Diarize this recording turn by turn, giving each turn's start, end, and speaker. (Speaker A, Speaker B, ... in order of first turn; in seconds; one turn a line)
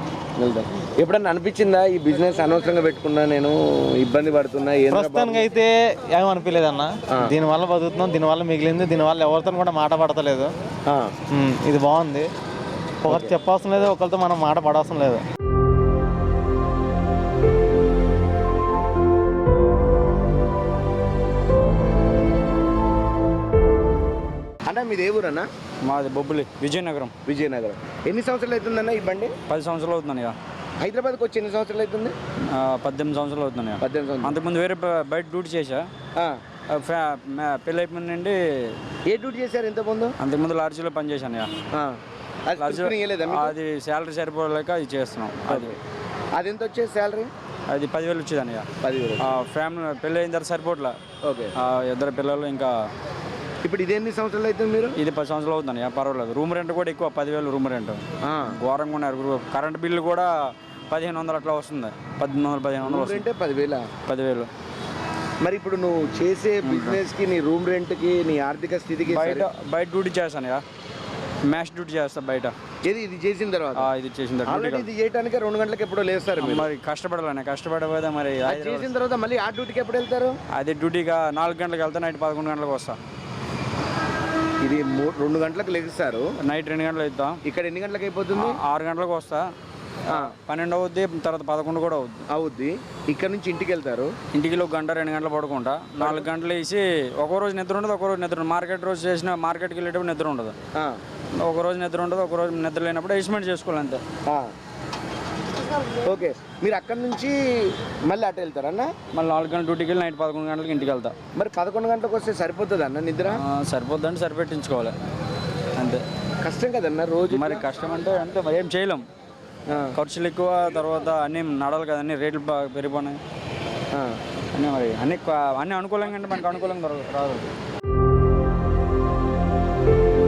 Speaker A: 0.4-5.5
Speaker B: 4.9-10.5
Speaker A: 10.9-11.1
Speaker B: 11.3-12.3
Speaker B: 13.0-15.2
Speaker A: 24.7-25.5
Speaker C: 25.9-27.1
Speaker A: 27.3-29.3
Speaker C: 29.5-30.4
Speaker A: 30.8-32.1
Speaker C: 32.5-35.9
Speaker A: 33.8-34.4
Speaker C: 36.7-38.8
Speaker A: 39.1-40.1
Speaker C: 40.2-41.5
Speaker A: 41.7-43.5
Speaker C: 42.6-45.8
Speaker A: 45.5-45.8
Speaker A: 46.4-47.3
Speaker C: 47.7-48.7
Speaker A: 48.8-49.2
Speaker C: 49.2-51.0
Speaker A: 51.2-51.5
Speaker C: 51.6-52.7
Speaker A: 53.6-55.0
Speaker C: 55.0-60.3
Speaker A: 58.2-58.6
Speaker C: 60.9-63.2
Speaker A: 62.8-63.9
Speaker C: 64.1-64.5
Speaker A: 65.4-69.5
Speaker C: 66.6-67.0
Speaker C: 69.0-70.6
Speaker C: 71.5-72.5
Speaker A: 72.8-73.9
Speaker C: 73.8-74.9
Speaker A: 74.5-76.7
Speaker C: 76.4-78.9
Speaker A: 78.5-80.4
Speaker C: 80.5-83.0
Speaker A: 84.6-86.3
Speaker C: 86.4-87.4
Speaker A: 87.5-88.6
Speaker C: 88.3-89.5
Speaker C: 90.1-92.2
Speaker A: 92.3-94.1
Speaker C: 94.3-100.5
Speaker A: 96.0-96.3
Speaker C: 101.4-104.0
Speaker A: 106.0-108.9
Speaker C: 109.1-111.1
Speaker A: 111.4-113.4
Speaker C: 113.4-114.9
Speaker C: 115.8-116.0
Speaker A: 116.4-117.6
Speaker C: 117.3-119.0
Speaker C: 120.0-123.2
Speaker C: 124.5-127.5